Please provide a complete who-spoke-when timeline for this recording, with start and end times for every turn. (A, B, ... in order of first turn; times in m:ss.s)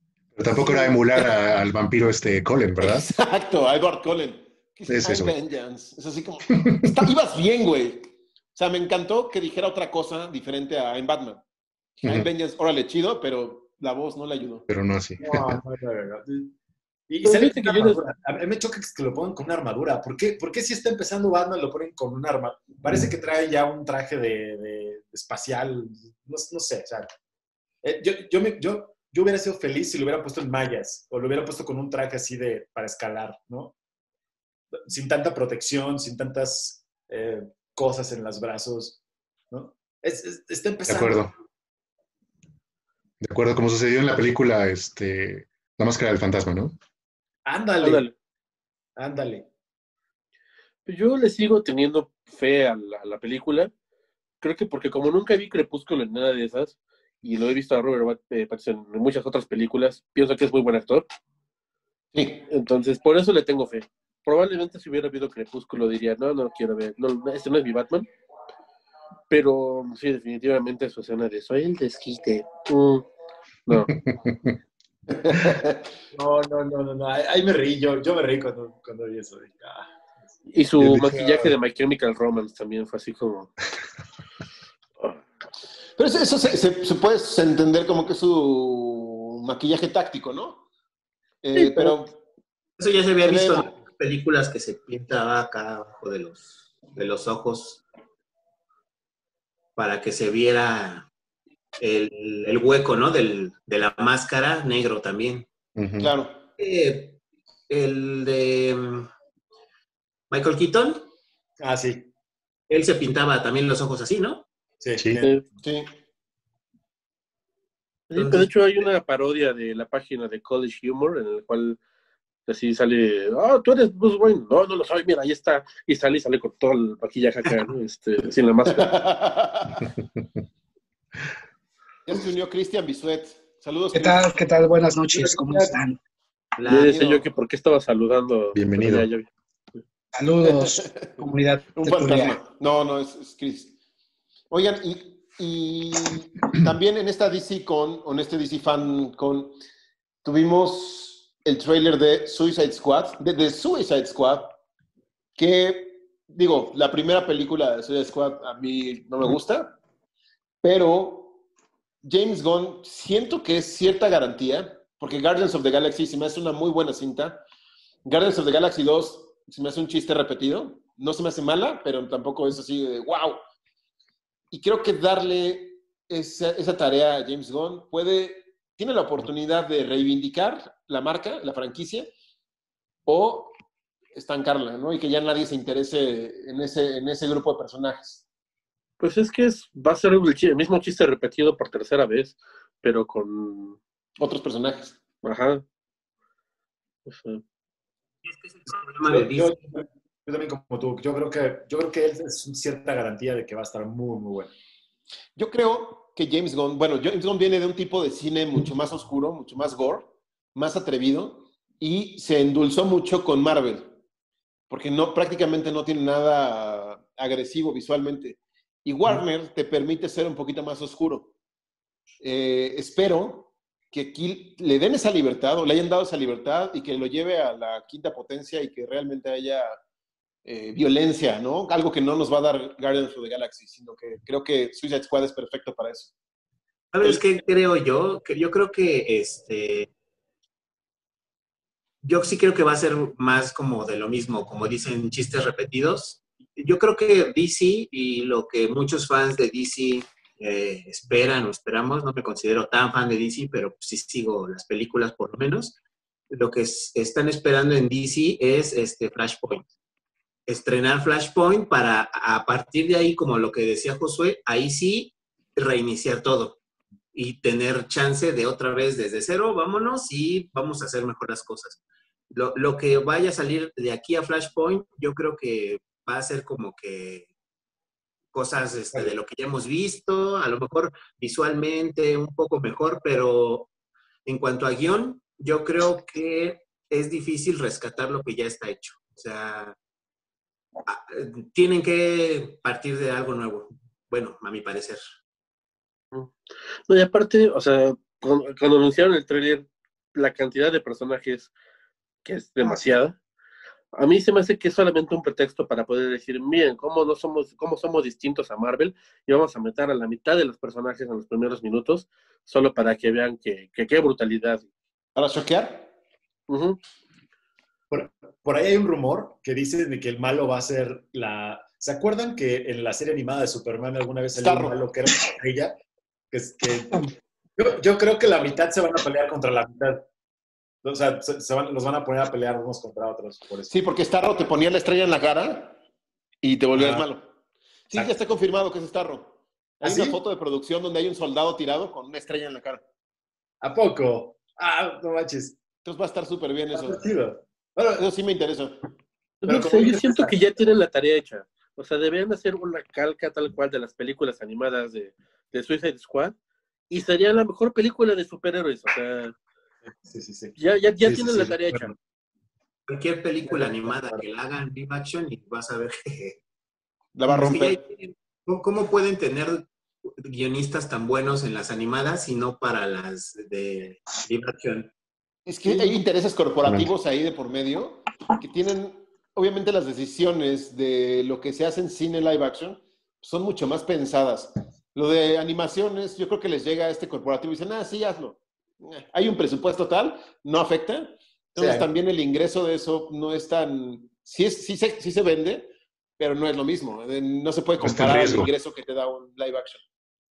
0:00.4-0:03.2 A
0:02.8-0:11.4 B
0:04.9-0:05.4 A
0:06.6-0:06.9 A
0:12.0-0:14.7 B
0:14.7-0:15.6 A
0:15.2-0:16.6 C
0:17.1-0:27.1 C
0:17.2-0:18.0 D
0:27.8-0:33.7 C
0:34.9-0:39.0 C
0:39.5-0:41.3 C
0:40.9-0:41.3 A
0:43.2-0:46.8 A
0:47.5-0:48.1 C
0:47.8-0:48.1 D
0:49.0-0:49.5 C
0:50.9-0:53.7 D
0:54.4-1:01.1 D
1:02.1-1:02.4 B
1:02.5-1:08.1 D
1:09.3-1:13.1 D
1:13.7-1:14.0 D
1:13.9-1:14.5 A
1:15.1-1:15.9 B
1:16.1-1:19.9 C
1:20.5-1:23.5 D
1:20.8-1:21.5 A
1:26.0-1:30.6 B
1:31.4-1:32.2 B
1:31.6-1:32.0 D
1:32.8-1:37.8 E
1:33.2-1:33.7 B
1:39.8-1:41.1 E
1:41.8-1:45.5 E
1:45.8-1:46.1 A
1:46.0-1:46.4 B
1:46.6-1:49.1 E
1:50.3-1:51.1 E
1:51.6-1:52.1 C
1:52.7-1:54.5 E
1:54.8-1:55.3 C
1:55.2-1:55.4 D
1:55.6-1:55.9 B
1:58.1-2:01.8 D
1:58.2-1:58.5 E
2:02.5-2:09.0 D
2:08.8-2:09.9 B
2:12.1-2:14.2 B
2:13.9-2:16.0 F
2:15.2-2:15.7 C
2:16.6-2:17.0 E
2:16.7-2:19.3 D
2:16.7-2:17.3 B
2:18.6-2:19.1 A
2:20.1-2:22.4 F
2:20.4-2:21.0 B
2:21.8-2:23.8 B
2:24.5-2:29.6 B
2:30.2-2:34.6 B
2:35.4-2:39.8 B
2:40.6-2:41.4 B
2:42.0-2:47.4 B
2:48.0-2:53.4 B
2:54.5-3:02.1 B
3:03.1-3:03.6 B
3:04.1-3:08.2 B
3:09.0-3:13.8 D
3:14.2-3:15.0 B
3:15.2-3:15.6 D
3:17.1-3:17.4 D
3:18.2-3:19.6 E
3:19.0-3:24.5 C
3:25.4-3:33.9 B
3:34.7-3:41.3 B
3:42.2-3:49.8 B
3:50.4-3:56.1 B
3:56.9-3:59.9 E
4:02.0-4:15.8 E
4:16.3-4:19.7 E
4:20.5-4:26.6 E
4:27.1-4:31.8 E
4:32.3-4:37.3 E
4:38.3-4:43.7 E
4:44.3-4:49.8 E
4:50.9-4:55.0 E
4:56.9-5:01.5 D
5:02.2-5:03.2 D
5:03.9-5:14.7 D
5:15.2-5:15.9 B
5:16.5-5:16.8 D
5:17.9-5:25.8 C
5:24.4-5:24.8 B
5:26.3-5:30.0 C
5:30.8-5:33.7 C
5:33.7-5:35.8 B
5:36.4-5:37.3 B
5:36.8-5:37.0 C
5:37.9-5:42.8 B
5:39.8-5:40.2 C
5:43.6-5:45.6 C
5:45.8-5:47.0 B
5:46.7-5:48.0 C
5:47.9-5:48.8 B
5:49.4-5:56.4 D
5:49.5-5:50.4 C
5:56.9-5:59.4 D
5:59.9-6:01.9 C
6:00.6-6:01.9 D
6:02.9-6:06.4 E
6:03.5-6:04.2 C
6:07.2-6:07.8 B
6:07.3-6:14.9 E
6:15.5-6:39.8 B
6:31.6-6:31.9 C
6:37.8-6:38.5 A